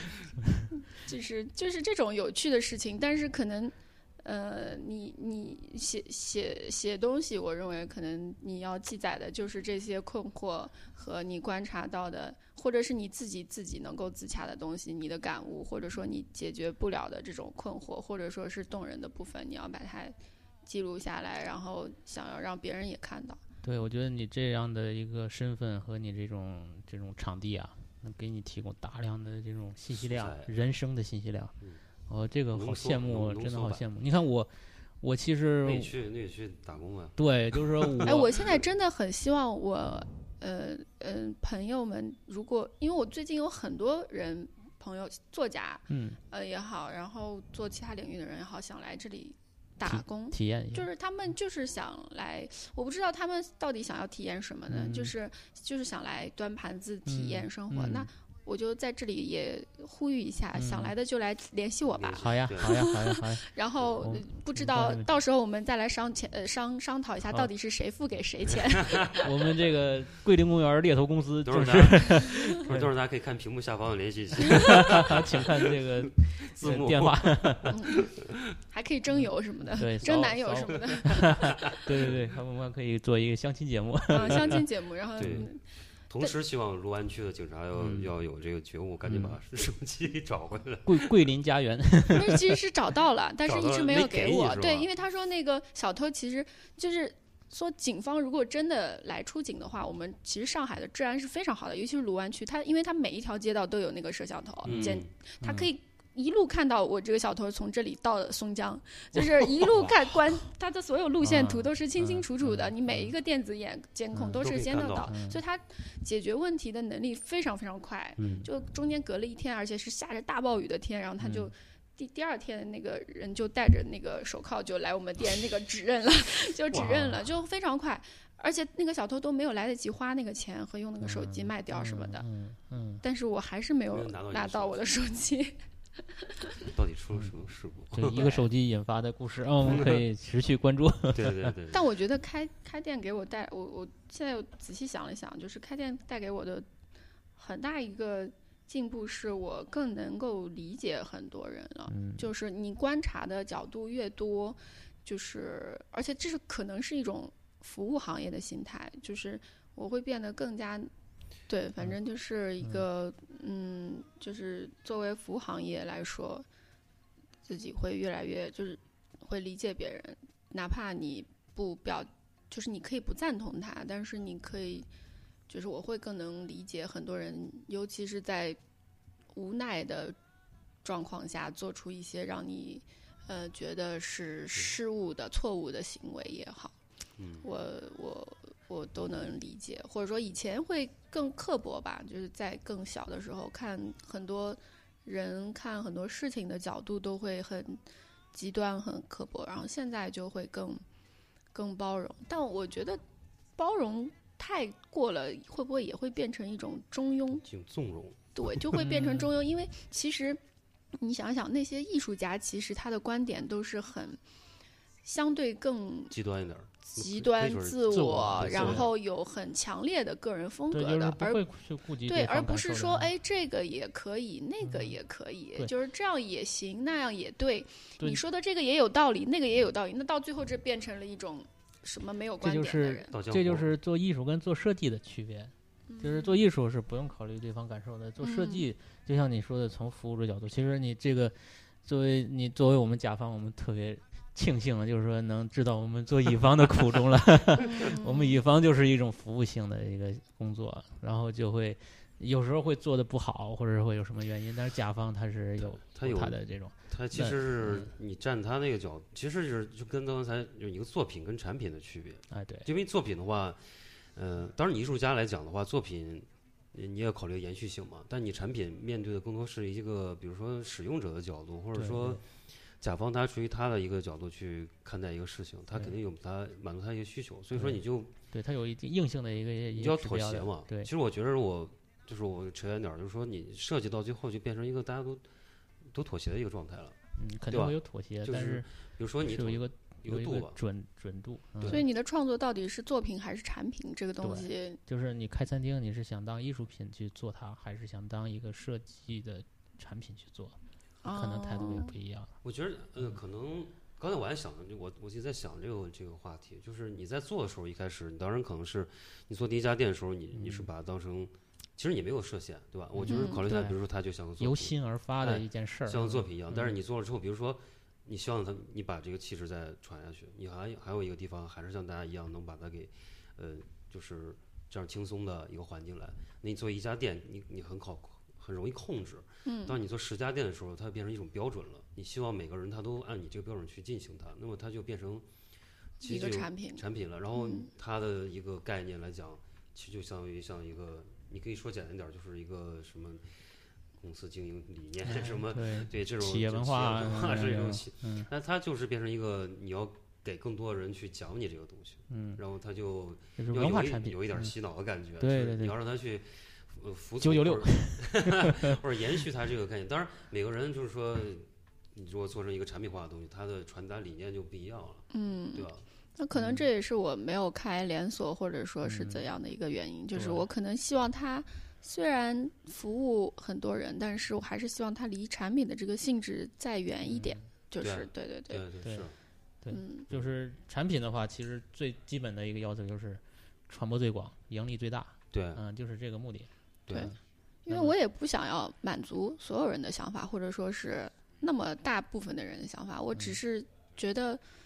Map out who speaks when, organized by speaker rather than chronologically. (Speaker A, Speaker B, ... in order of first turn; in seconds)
Speaker A: 0.9-23.4, 38.0-69.3, 77.7-78.1, 78.6-81.8, 84.1-85.6, 92.1-132.3, 133.0-135.6, 136.1-136.5, 138.2-138.4, 141.7-146.7, 147.4-160.9, 161.5-166.4, 167.4-174.9, 175.5-178.6, 179.3-180.2, 180.8-186.8, 187.4-197.8, 198.3-200.8, 201.5-203.0, 203.6-207.4, 208.3-210.4, 211.0-214.2, 215.0-216.1, 216.9-221.4, 222.0-233.1, 235.9-236.4, 238.2-238.6, 247.6-248.4, 291.7-294.8, 301.0-301.9, 313.1-313.6, 329.5-329.8, 336.0-337.7, 365.1-378.6, 379.7-380.1, 387.7-394.4
Speaker B: 23.6-31.6, 32.1-36.0, 37.2-38.3, 45.9-46.2, 49.9-50.9, 54.7-55.1, 57.1-58.1, 60.5-60.9, 62.2-63.4, 64.0-65.1, 69.2-72.9, 74.5-77.8, 79.2-84.6, 85.2-85.5, 87.8-88.1, 89.1-89.4, 90.8-92.6, 104.6-105.7, 109.5-110.0, 111.2-113.1, 114.1-114.5, 115.0-115.4, 118.2-118.5, 121.2-121.5, 126.7-127.2, 131.0-133.0, 137.9-141.6, 151.9-152.2, 208.7-209.3, 217.9-218.9, 220.7-223.1, 224.6-225.0, 232.4-257.9, 262.3-262.7, 271.7-272.2, 277.5-280.9, 287.2-288.7, 289.2-291.8, 294.2-302.4, 310.3-310.7, 312.9-313.8, 314.4-316.8, 345.0-348.3, 352.1-352.4, 353.4-354.5, 355.2-355.8, 357.2-358.8, 366.4-366.6, 368.8-369.3, 370.1-370.5, 377.1-377.4, 378.8-379.1, 379.6-387.1, 387.7-387.9
Speaker C: 29.9-30.5, 32.5-33.8, 35.6-38.6, 62.0-62.8, 71.5-78.4, 82.0-82.2, 84.1-84.6, 85.2-85.5, 86.1-91.2, 93.5-94.9, 104.6-105.1, 114.4-115.1, 133.9-134.8, 136.6-138.3, 139.7-140.0, 141.1-141.9, 187.2-187.5, 207.4-208.6, 216.1-218.9, 233.1-233.7, 255.6-272.3, 272.8-278.1, 279.8-285.2, 285.9-287.0, 287.5-290.6, 291.6-291.8, 302.4-335.2, 336.0-343.2, 344.0-365.8, 377.8-379.2, 385.3-385.6, 386.9-387.1